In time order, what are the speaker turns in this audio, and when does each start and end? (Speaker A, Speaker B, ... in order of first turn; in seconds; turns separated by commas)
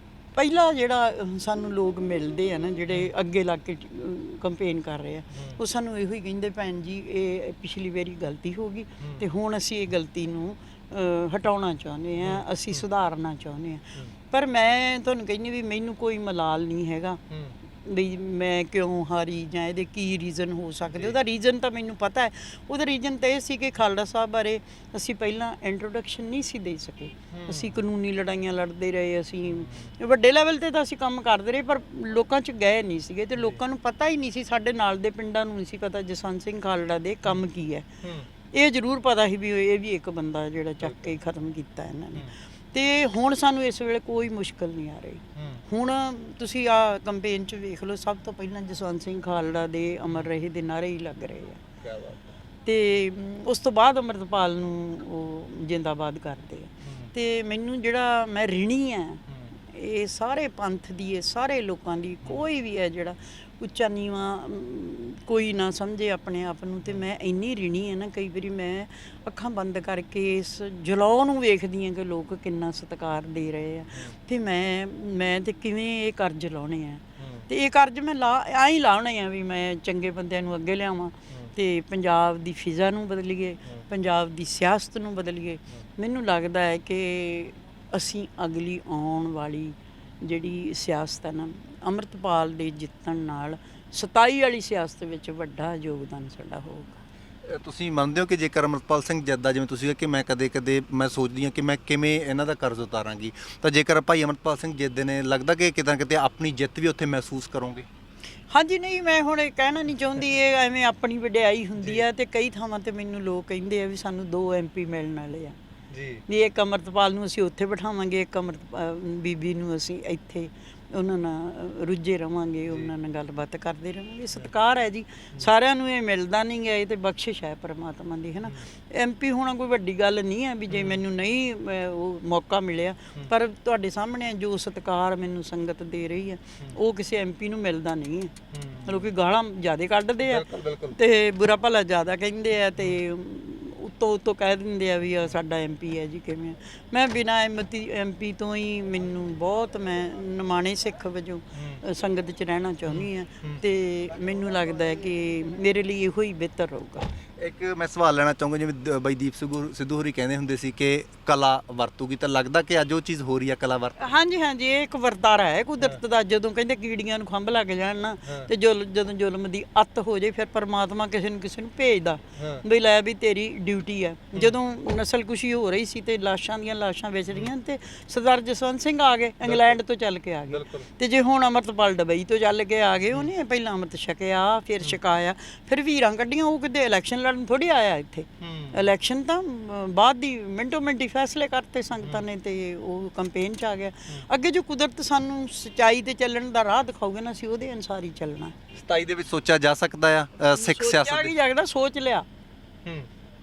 Speaker A: 0.3-17.2, Speaker A: 17.8-37.9, Speaker B: 27.3-27.7, Speaker B: 29.5-29.9, Speaker B: 38.0-38.3, Speaker A: 38.5-51.6, Speaker B: 40.8-41.1, Speaker B: 45.4-45.6, Speaker B: 51.8-52.4, Speaker A: 52.6-97.0, Speaker B: 56.8-57.1, Speaker B: 77.2-77.5, Speaker B: 97.4-107.9, Speaker A: 108.5-115.5, Speaker B: 115.9-116.2, Speaker A: 116.3-157.1, Speaker B: 130.7-131.0, Speaker B: 138.5-139.1, Speaker B: 140.2-141.0, Speaker B: 152.9-153.6, Speaker B: 157.4-164.1, Speaker A: 164.0-198.6, Speaker B: 172.3-172.6, Speaker B: 179.4-179.8, Speaker B: 180.5-180.9, Speaker B: 188.4-188.8, Speaker B: 198.7-201.3, Speaker A: 200.5-202.3, Speaker B: 202.8-203.1